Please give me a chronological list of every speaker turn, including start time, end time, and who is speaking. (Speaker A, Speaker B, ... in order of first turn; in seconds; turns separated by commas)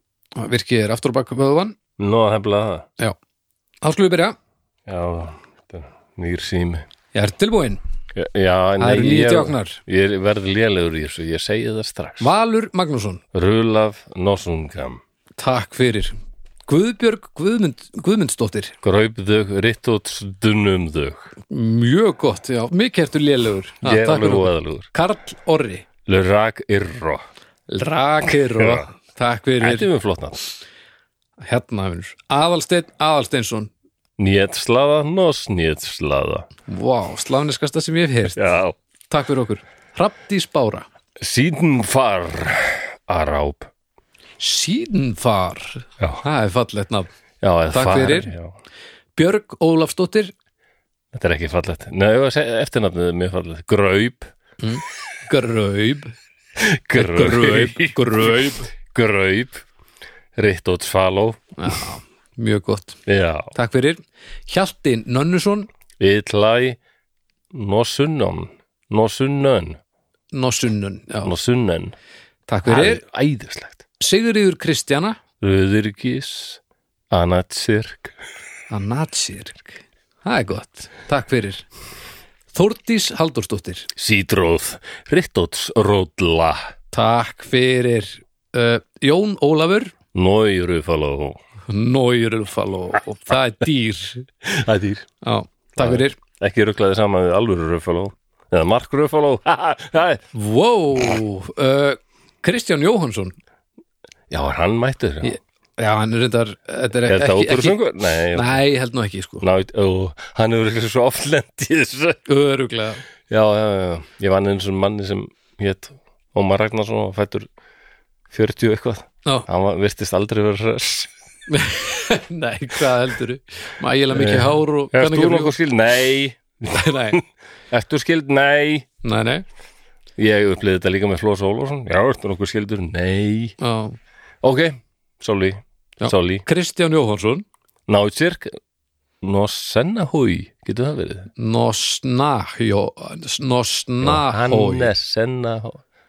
Speaker A: 0.4-1.8, Speaker B: 2.0-2.9, Speaker A: 3.8-4.4, Speaker B: 4.9-6.9, Speaker A: 7.1-7.8, Speaker B: 8.1-12.3, Speaker A: 8.8-9.8, Speaker A: 12.2-13.2, Speaker B: 13.3-15.0, Speaker A: 15.4-16.2, Speaker A: 16.7-18.8, Speaker B: 18.8-21.4, Speaker A: 21.5-25.9, Speaker B: 23.8-24.9, Speaker B: 26.1-27.3, Speaker A: 27.7-29.9, Speaker B: 28.6-28.9, Speaker B: 29.6-30.4, Speaker A: 31.4-33.7, Speaker B: 34.2-36.5, Speaker A: 36.7-38.4, Speaker B: 38.4-38.8, Speaker A: 39.1-40.9, Speaker B: 41.2-43.7, Speaker A: 44.4-47.1, Speaker B: 47.4-48.5, Speaker A: 47.7-48.3, Speaker A: 49.2-50.3, Speaker B: 51.1-54.3, Speaker A: 54.6-56.1, Speaker B: 56.6-59.6, Speaker A: 56.9-58.7, Speaker B: 60.4-61.7, Speaker A: 61.6-63.0, Speaker B: 63.1-63.5, Speaker A: 63.5-65.7, Speaker B: 66.0-66.8, Speaker B: 67.5-69.8, Speaker A: 70.3-71.3, Speaker B: 71.2-72.0, Speaker A: 72.5-73.0, Speaker B: 72.7-73.8, Speaker A: 74.0-75.2, Speaker B: 75.4-76.6, Speaker B: 77.1-78.2, Speaker A: 78.7-81.7, Speaker A: 82.5-83.9, Speaker B: 84.0-86.7, Speaker A: 86.9-89.9, Speaker B: 90.1-91.4, Speaker A: 91.7-94.3, Speaker B: 94.4-95.1, Speaker A: 95.2-96.2, Speaker B: 95.8-100.2, Speaker A: 100.3-103.4, Speaker B: 104.3-105.3, Speaker A: 105.2-109.4, Speaker B: 107.1-108.6, Speaker B: 109.4-112.2, Speaker A: 112.3-113.0, Speaker B: 113.3-117.5, Speaker B: 118.3-121.1, Speaker A: 121.5-125.6, Speaker B: 124.1-128.9, Speaker A: 126.7-127.2, Speaker A: 129.0-129.4, Speaker B: 130.2-133.6, Speaker A: 133.6-134.0, Speaker B: 134.4-136.4, Speaker A: 136.0-137.4, Speaker B: 137.9-138.6, Speaker B: 139.2-141.3, Speaker A: 141.4-144.9, Speaker B: 144.0-145.8